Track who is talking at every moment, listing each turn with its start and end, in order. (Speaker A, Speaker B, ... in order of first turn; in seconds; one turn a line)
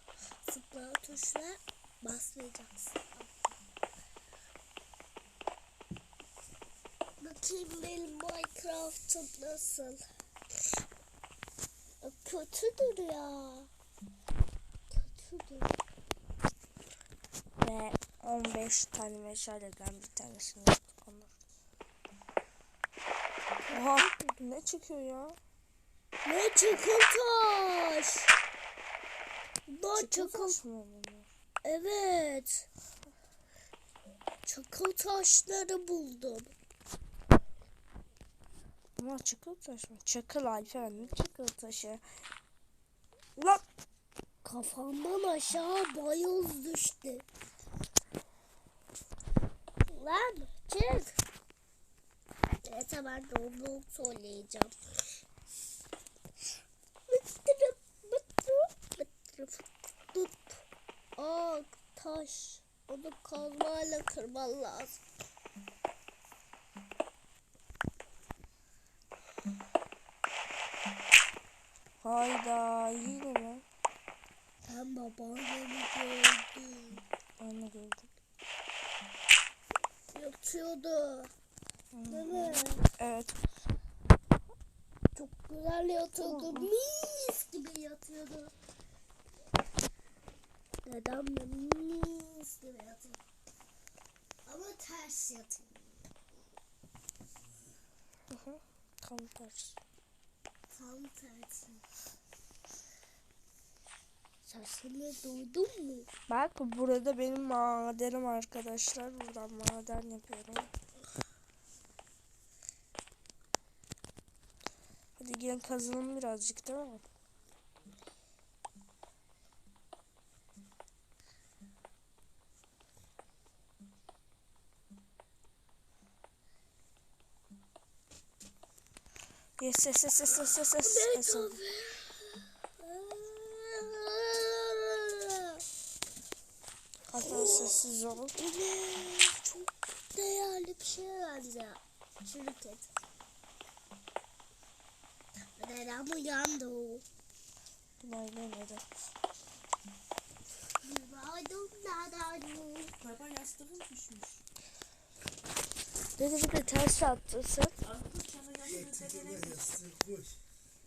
Speaker A: 0.4-3.3
Speaker A: 7.2-10.0
Speaker A: 12.0-13.7
Speaker A: 14.9-15.7
Speaker B: 17.6-21.3
Speaker A: 23.6-24.3
Speaker B: 23.7-25.4
Speaker A: 26.2-28.3
Speaker A: 29.7-30.6
Speaker B: 29.9-31.3
Speaker A: 31.6-32.7
Speaker A: 34.4-36.5
Speaker B: 39.0-42.0
Speaker B: 43.4-43.6
Speaker A: 44.4-47.2
Speaker A: 49.9-51.2
Speaker A: 52.6-54.7
Speaker A: 57.1-60.6
Speaker A: 61.2-65.0
Speaker B: 72.0-73.6
Speaker A: 74.7-77.0
Speaker B: 77.4-78.1
Speaker A: 80.1-81.3
Speaker B: 81.9-83.4
Speaker A: 82.1-82.8
Speaker A: 85.1-88.5
Speaker B: 86.2-86.7
Speaker A: 90.8-93.2
Speaker A: 94.4-95.7
Speaker B: 98.3-99.8
Speaker A: 100.7-101.8
Speaker A: 104.4-106.1
Speaker B: 106.3-110.7
Speaker B: 115.2-117.0
Speaker B: 129.6-131.6
Speaker A: 130.8-135.6
Speaker B: 137.1-138.3
Speaker A: 137.2-142.9
Speaker A: 145.6-147.0
Speaker B: 148.0-148.8
Speaker A: 150.8-152.9
Speaker C: 153.0-154.4
Speaker B: 156.2-157.8
Speaker C: 157.8-159.9